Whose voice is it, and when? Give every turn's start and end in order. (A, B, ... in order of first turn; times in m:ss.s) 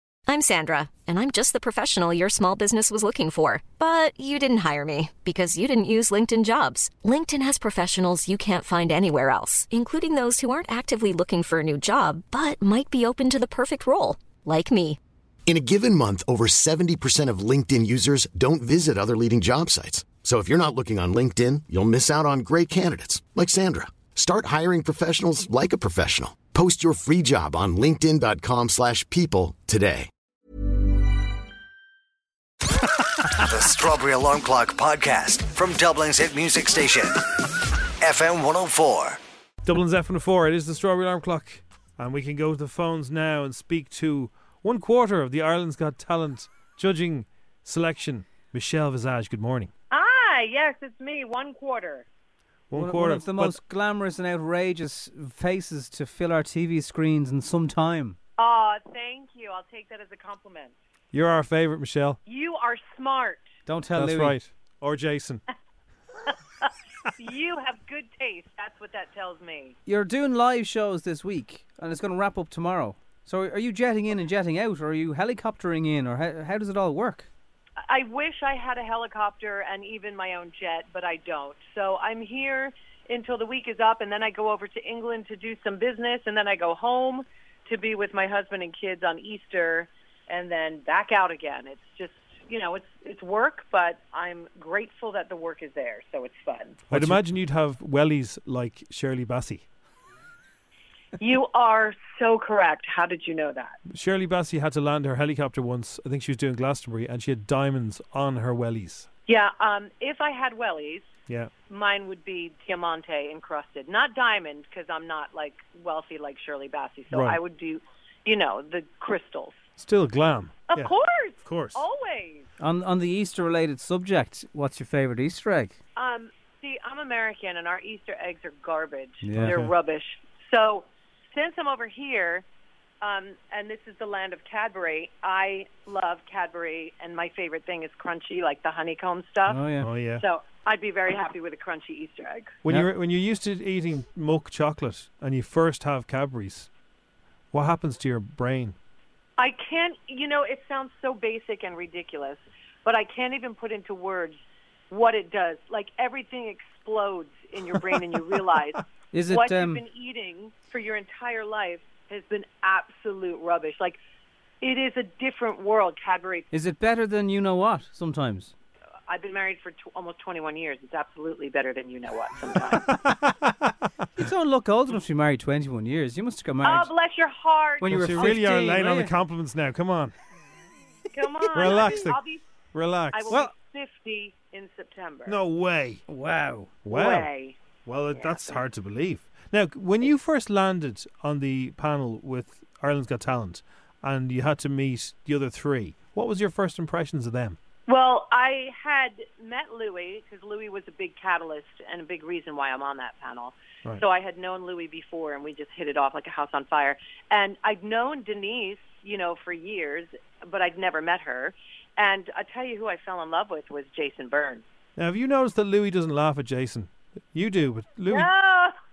0:00.3-0:15.0 A
0:15.4-0:30.1 B
0:33.2-0:37.2 C
0:38.0-0:39.2 C
0:39.6-0:49.7 D
0:49.9-0:52.0 E
0:52.7-0:53.6 D
0:52.7-0:58.2 F
0:58.4-1:00.7 E
1:01.1-1:02.2 D
1:02.2-1:03.4 E
1:03.6-1:04.4 F
1:03.9-1:05.4 D
1:06.2-1:09.8 E
1:09.8-1:17.3 F
1:17.8-1:36.9 E
1:36.9-1:39.6 D
1:36.9-1:37.2 F
1:41.2-1:43.8 E
1:43.9-1:49.1 D
1:49.3-1:51.1 E
1:51.7-1:59.6 E
1:57.1-1:57.4 D
1:59.8-2:01.8 D
2:00.7-2:02.5 E
2:02.6-2:05.8 F
2:06.0-2:12.4 E
2:09.2-2:09.6 F
2:09.4-2:09.7 D
2:13.0-2:22.6 E
2:19.4-2:19.9 F
2:19.8-2:20.2 D
2:22.6-2:26.7 D
2:27.5-2:28.7 D
2:29.4-2:34.4 E
2:34.9-2:44.0 E
2:39.1-2:39.8 F
2:44.6-2:46.5 E
2:46.5-2:48.5 F
2:49.1-2:52.9 E
2:52.8-2:53.5 D
2:54.2-2:56.9 F
2:56.6-2:58.0 E
2:57.8-2:59.1 F
2:57.9-3:00.1 D
3:01.1-3:02.5 E
3:01.5-3:02.2 D
3:02.7-3:03.3 D
3:03.1-3:05.4 E
3:05.2-3:06.0 D
3:06.1-3:06.7 F
3:06.8-3:07.3 D
3:06.9-3:07.6 E
3:07.8-3:17.6 D
3:08.1-3:08.6 E
3:17.9-3:34.6 E
3:35.0-3:38.3 D
3:38.1-3:38.7 E